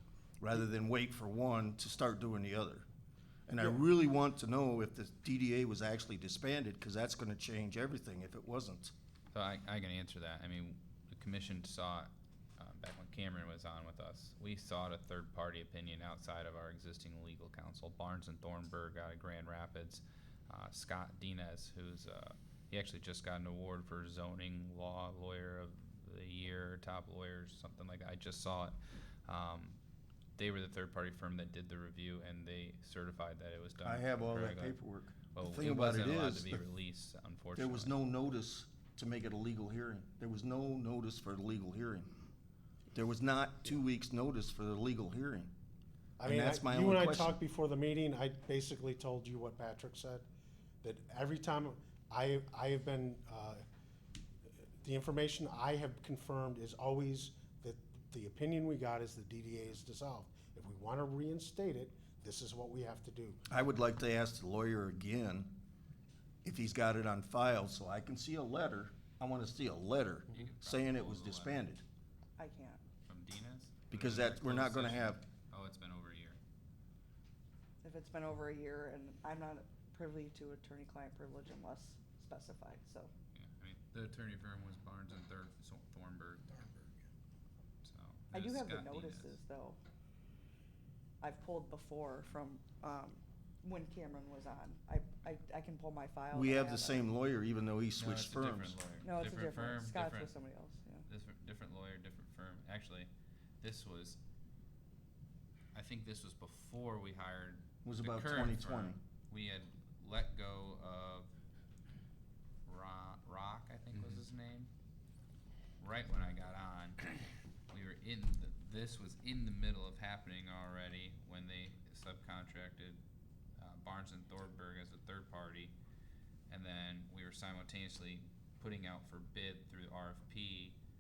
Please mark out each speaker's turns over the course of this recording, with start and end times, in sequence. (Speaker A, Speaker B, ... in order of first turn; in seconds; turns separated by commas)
Speaker A: 0.4-2.9, Speaker A: 3.5-8.9, Speaker B: 9.3-28.8, Speaker B: 29.3-29.8, Speaker B: 30.4-34.8, Speaker A: 33.8-36.6, Speaker B: 35.3-37.9, Speaker A: 37.6-42.1, Speaker A: 42.9-45.5, Speaker C: 46.2-50.2, Speaker A: 46.2-47.4, Speaker C: 50.8-53.6, Speaker C: 54.8-63.4, Speaker A: 63.5-65.5, Speaker A: 66.4-71.8, Speaker B: 70.3-71.6, Speaker D: 72.4-72.8, Speaker B: 73.1-76.4, Speaker A: 73.9-75.2, Speaker D: 77.8-83.1, Speaker B: 83.3-86.8, Speaker B: 87.8-89.4, Speaker D: 88.3-89.8, Speaker D: 91.2-97.0, Speaker A: 96.3-98.8, Speaker B: 98.0-100.3, Speaker D: 99.0-101.1, Speaker B: 101.1-103.1, Speaker B: 103.6-104.2, Speaker B: 105.7-111.3, Speaker A: 107.8-109.0, Speaker B: 112.7-114.7, Speaker B: 115.8-117.1, Speaker B: 117.7-123.0, Speaker B: 123.6-125.7, Speaker B: 126.5-130.8